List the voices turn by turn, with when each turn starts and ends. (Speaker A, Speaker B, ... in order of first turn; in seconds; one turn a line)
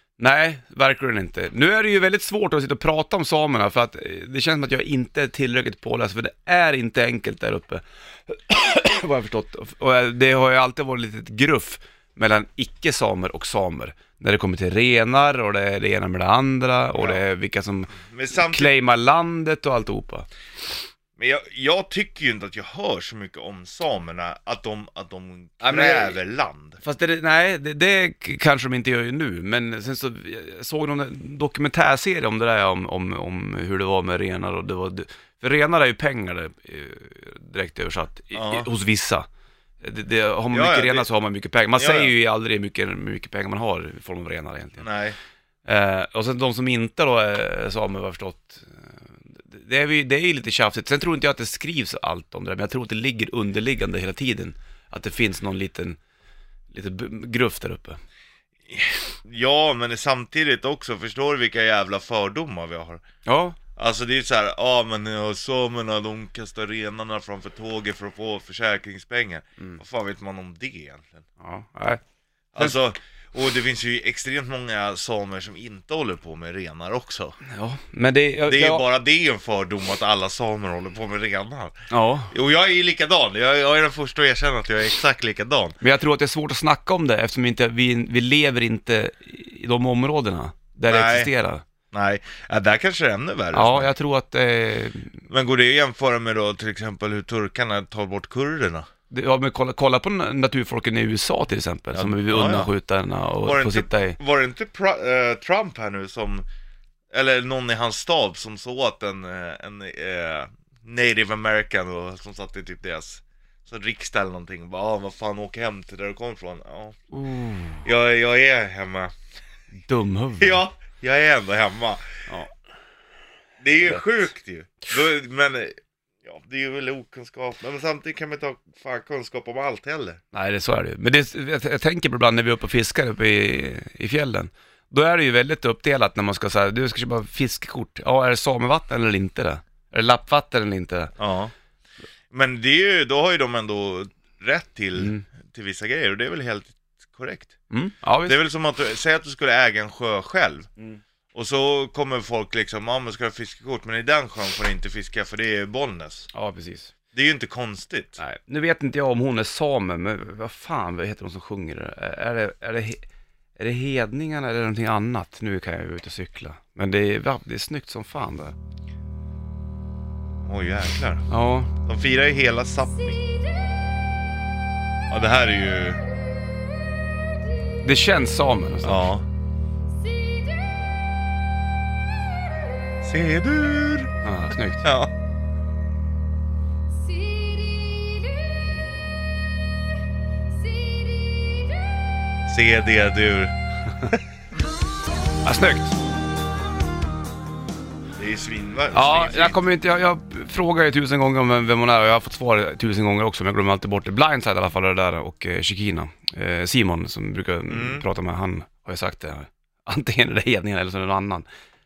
Speaker A: 0.2-20.3
Speaker B: 16.9-17.2
Speaker B: 18.1-18.7
Speaker B: 21.2-26.8
Speaker A: 25.6-26.2
Speaker A: 26.8-39.3
Speaker B: 38.3-38.7
Speaker A: 39.8-44.9
Speaker B: 40.5-41.1
Speaker B: 41.8-42.1
Speaker B: 44.8-45.2
Speaker A: 45.7-56.0
Speaker A: 56.7-58.0
Speaker B: 58.7-63.0
Speaker A: 63.3-63.6
Speaker B: 63.8-71.2
Speaker A: 71.4-72.0
Speaker B: 72.5-77.3
Speaker A: 77.5-78.8
Speaker B: 78.5-81.8
Speaker A: 81.9-82.3
Speaker B: 82.3-85.8
Speaker A: 85.8-91.6
Speaker B: 90.9-91.3
Speaker B: 91.9-93.9
Speaker A: 93.5-95.2
Speaker B: 95.3-98.9
Speaker A: 99.1-104.2
Speaker B: 101.9-102.7
Speaker B: 103.4-106.5
Speaker B: 107.1-117.0
Speaker A: 117.1-117.8
Speaker B: 117.8-119.1
Speaker A: 119.9-120.6
Speaker B: 120.4-122.0
Speaker B: 123.6-130.2
Speaker A: 130.3-141.1
Speaker B: 141.2-141.5
Speaker B: 142.3-147.5
Speaker A: 145.0-145.3
Speaker A: 147.7-148.4
Speaker B: 148.2-150.7
Speaker B: 151.3-156.3
Speaker A: 156.3-156.9
Speaker B: 157.1-158.2
Speaker A: 158.2-163.0
Speaker A: 163.6-168.5
Speaker B: 170.4-171.3
Speaker A: 171.3-171.7
Speaker B: 171.8-173.2
Speaker B: 175.1-176.0
Speaker A: 177.8-179.1
Speaker B: 178.8-179.2
Speaker B: 183.0-184.1
Speaker A: 184.2-184.8
Speaker B: 184.8-185.1
Speaker B: 192.5-193.5
Speaker A: 195.4-195.9
Speaker B: 198.2-199.6
Speaker A: 198.9-211.5
Speaker B: 207.7-208.1